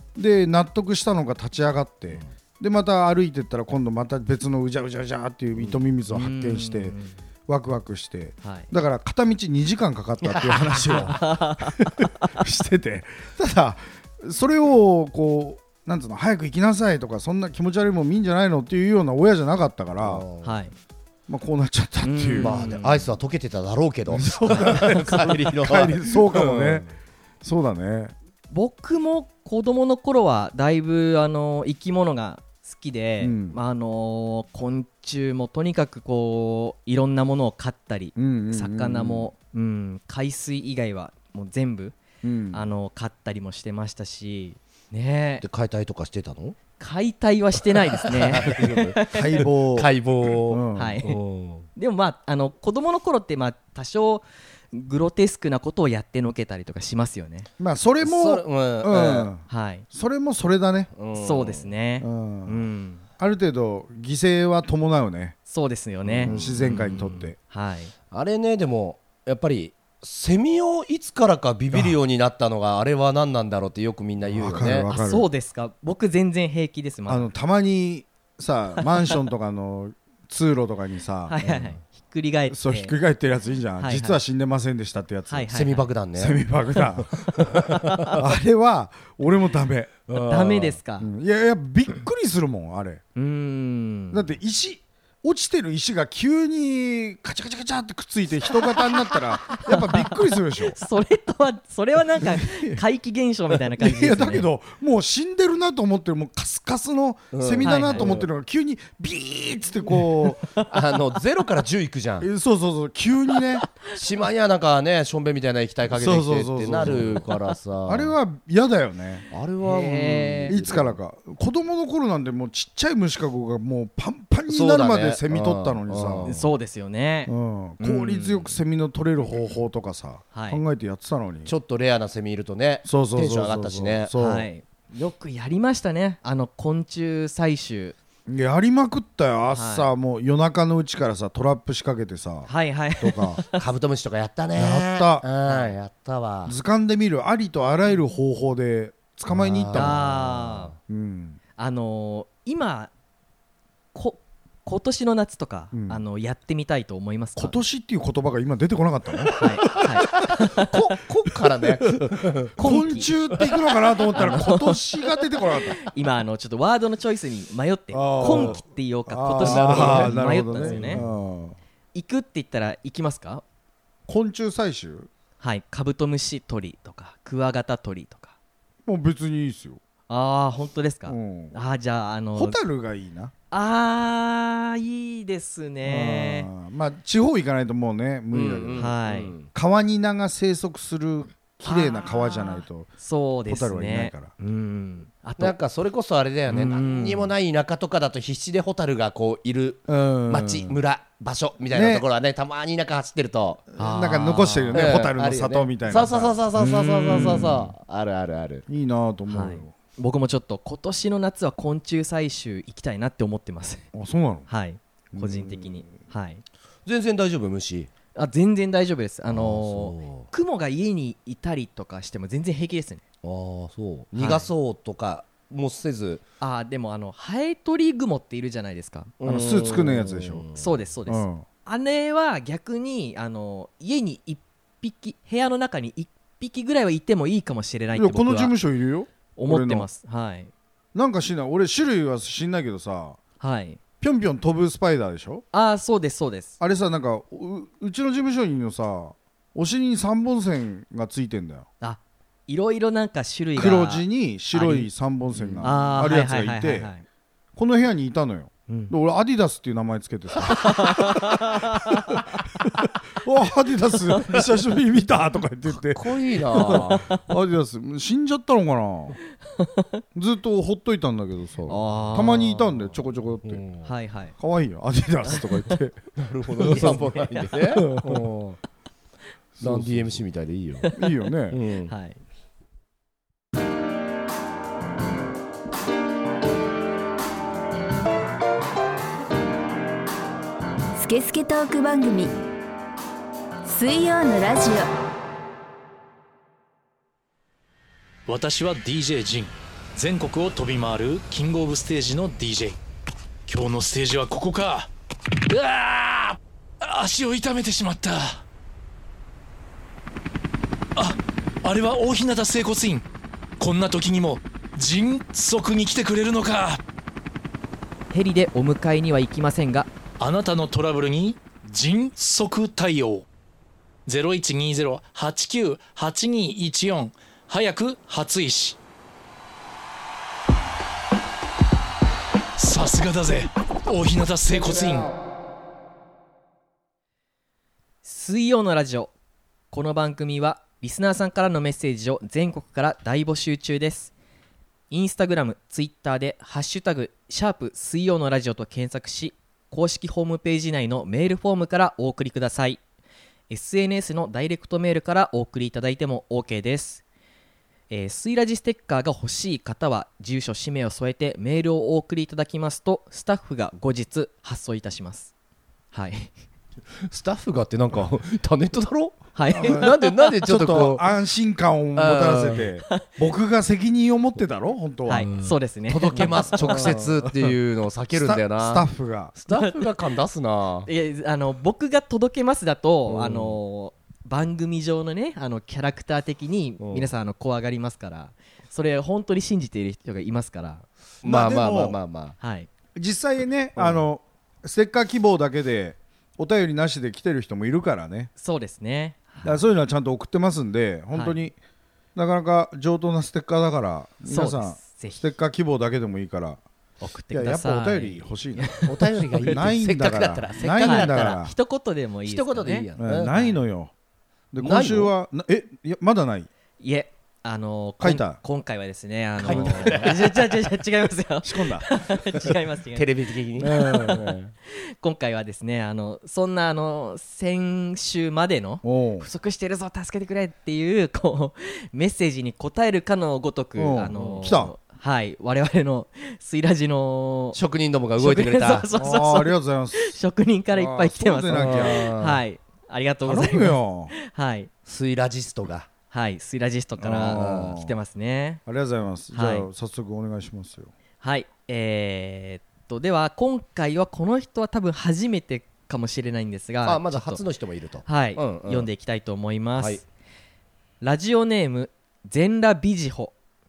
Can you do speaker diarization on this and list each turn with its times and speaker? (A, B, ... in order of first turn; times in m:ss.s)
0:00.2-0:07.0 A
0:05.6-0:05.8 B
0:06.1-0:07.2 C
0:07.5-0:20.2 A
0:08.4-0:08.7 C
0:10.2-0:11.1 B
0:10.9-0:12.4 C
0:20.0-0:20.6 B
0:20.4-0:20.8 C
0:21.3-0:22.8 A
0:22.0-0:23.1 C
0:22.4-0:26.9 B
0:24.1-0:26.9 A
0:24.5-0:25.5 C
0:27.4-0:28.1 A
0:28.5-0:42.0 C
0:33.2-0:33.6 A
0:38.2-0:39.3 A
0:42.2-0:42.6 A
0:42.5-0:45.4 C
0:45.4-0:46.6 B
0:46.8-0:49.4 C
0:47.7-0:51.7 B
0:49.1-0:49.9 A
0:50.4-0:51.0 A
0:50.7-0:51.2 C
0:51.8-0:57.5 C
0:57.6-1:00.9 A
0:58.0-0:59.3 B
0:59.5-0:59.8 C
1:00.9-1:01.7 B
1:01.2-1:03.0 C
1:02.0-1:02.6 A
1:03.2-1:05.4 A
1:05.5-1:07.9 C
1:06.0-1:07.2 B
1:06.2-1:07.4 A
1:08.1-1:14.9 B
1:11.7-1:12.0 A
1:14.3-1:15.3 A
1:14.9-1:17.3 C
1:17.1-1:21.4 A
1:21.3-1:23.0 C
1:22.5-1:25.5 A
1:23.8-1:24.2 C
1:25.3-1:25.9 C
1:25.5-1:26.4 B
1:26.2-1:30.0 A
1:27.2-1:28.2 B
1:27.7-1:28.2 C
1:30.1-1:30.8 B
1:30.2-1:31.1 C
1:31.0-1:33.0 A
1:33.2-1:34.3 C
1:34.1-1:40.8 A
1:39.7-1:40.1 C
1:40.7-1:44.5 C
1:42.2-1:42.8 A
1:43.8-1:50.5 A
1:47.3-1:48.3 B
1:47.6-1:48.1 C
1:50.4-1:50.7 C
1:50.7-1:52.3 B
1:52.2-1:53.7 A
1:53.8-1:58.1 B
1:55.9-1:57.3 A
1:56.9-1:57.5 C
1:57.9-1:59.3 A
1:59.3-2:01.0 B
1:59.6-2:00.6 C
2:00.5-2:06.4 A
2:04.5-2:06.5 B
2:06.2-2:08.5 C
2:07.3-2:11.5 A
2:10.3-2:10.6 C
2:11.4-2:14.1 B
2:12.8-2:14.5 A
2:14.2-2:18.0 C
2:18.3-2:23.4 A
2:19.6-2:19.9 C
2:22.5-2:23.6 C
2:23.5-2:26.6 B
2:24.6-2:25.3 A
2:25.5-2:25.7 C
2:26.5-2:30.0 A
2:29.3-2:30.7 B
2:29.7-2:30.7 C
2:30.9-2:31.4 A
2:31.6-2:32.9 C
2:33.9-2:37.6 C
2:35.7-2:36.0 A
2:37.4-2:40.4 A
2:39.3-2:42.5 B
2:39.4-2:40.8 C
2:42.0-2:45.8 A
2:42.6-2:43.1 C
2:44.2-2:44.8 C
2:45.8-2:51.0 C
2:47.9-2:51.6 A
2:48.2-2:48.6 B
2:49.4-2:51.2 B
2:51.9-2:53.4 C
2:54.1-2:55.1 A
2:55.4-2:58.3 C
2:58.9-2:59.8 A
3:00.1-3:02.6 C
3:01.1-3:01.6 A
3:02.4-3:03.3 A
3:03.5-3:06.5 C
3:05.8-3:08.9 A
3:08.3-3:09.5 B
3:08.8-3:09.3 C
3:09.5-3:12.9 A
3:11.6-3:15.6 C
3:13.5-3:14.3 A
3:15.4-3:23.7 B
3:16.5-3:17.3 C
3:19.9-3:20.8 A
3:21.7-3:22.1 A
3:23.7-3:27.7 A
3:23.8-3:24.9 C
3:24.7-3:28.6 B
3:27.1-3:27.5 C
3:28.7-3:29.7 A
3:29.3-3:33.9 C
3:33.9-3:34.5 A
3:34.5-3:36.4 C
3:35.1-3:35.9 A
3:36.9-3:37.9 B
3:38.2-3:43.0 C
3:39.3-3:40.3 B
3:43.2-3:46.2 B
3:44.2-3:44.5 C
3:46.4-3:49.1 C
3:49.2-3:50.7 B
3:49.2-3:50.4 A
3:50.6-3:58.5 C
3:51.1-3:51.4 A
3:58.0-3:59.9 A
3:59.4-4:00.5 C
4:01.0-4:03.2 A
4:03.4-4:03.8 C
4:04.0-4:05.4 A
4:05.5-4:06.6 C
4:06.6-4:11.7 A
4:11.8-4:14.9 C
4:13.6-4:16.9 A
4:15.4-4:15.7 B
4:15.6-4:17.0 C
4:17.6-4:29.2 A
4:18.7-4:18.9 C
4:20.4-4:22.2 C
4:25.7-4:27.1 B
4:26.6-4:27.2 C
4:29.6-4:29.9 C
4:30.1-4:33.6 A
4:31.7-4:32.8 C
4:33.4-4:33.9 B
4:33.8-4:34.3 C
4:34.4-4:36.0 A
4:35.3-4:35.7 C
4:36.2-4:38.6 B
4:36.6-4:37.1 A
4:36.6-4:37.6 C
4:37.8-4:38.3 A
4:39.6-4:40.2 A
4:39.6-4:40.9 B
4:40.9-4:41.6 A
4:41.5-4:41.9 B
4:41.9-4:42.2 C
4:51.0-4:52.4 D
4:53.6-4:54.9 D
4:58.3-5:02.8 E
5:03.5-5:04.9 E
5:05.5-5:08.4 E
5:11.0-5:13.0 E
5:13.6-5:16.8 E
5:18.1-5:19.9 C
5:20.2-5:23.3 E
5:24.1-5:28.8 E
5:32.6-5:35.1 E
5:38.0-5:39.1 C
5:39.7-5:44.1 C
5:44.9-5:52.8 C
5:53.5-5:57.0 C
5:57.9-6:05.3 C
6:05.9-6:06.3 C
6:07.1-6:11.0 B
6:09.4-6:09.9 C
6:09.5-6:15.3 A
6:12.0-6:12.7 B
6:15.1-6:17.0 C
6:15.3-6:20.9 B
6:16.7-6:17.5 A
6:18.1-6:19.4 A
6:19.5-6:19.9 C
6:20.9-6:30.8 C
6:23.1-6:23.6 B
6:26.8-6:27.1 B
6:31.2-6:32.0 A
6:31.2-6:32.4 B
6:32.4-6:32.7 C
6:33.0-6:38.3 A
6:33.8-6:34.0 B
6:38.4-6:39.6 C
6:39.4-6:41.6 A
6:41.1-6:41.4 C
6:42.2-6:46.6 A
6:44.3-6:45.2 C
6:47.0-6:49.6 C
6:47.3-6:48.8 A
6:48.9-6:51.4 B
6:49.5-6:51.5 A
6:50.8-6:53.6 C
6:52.3-6:53.3 B
6:53.0-6:53.9 A
6:54.5-6:56.5 A
6:54.6-6:55.1 B
6:56.8-7:17.6 C
6:58.0-6:58.4 A
6:59.4-7:00.4 B
6:59.4-7:00.2 A
7:01.4-7:01.9 A
7:03.0-7:04.5 B
7:03.6-7:04.2 A
7:08.8-7:09.3 A
7:13.8-7:14.7 A
7:17.5-7:18.9 B
7:18.2-7:24.7 C
7:18.9-7:20.2 A
7:20.7-7:22.1 A
7:21.5-7:22.4 B
7:23.2-7:24.1 A
7:24.9-7:25.9 B
7:26.1-7:28.6 C
7:27.0-7:27.9 A
7:27.3-7:27.8 B
7:28.7-7:30.9 A
7:29.3-7:29.7 C
7:31.2-7:37.4 C
7:36.8-7:38.9 B
7:38.0-7:40.0 C
7:41.0-7:43.3 C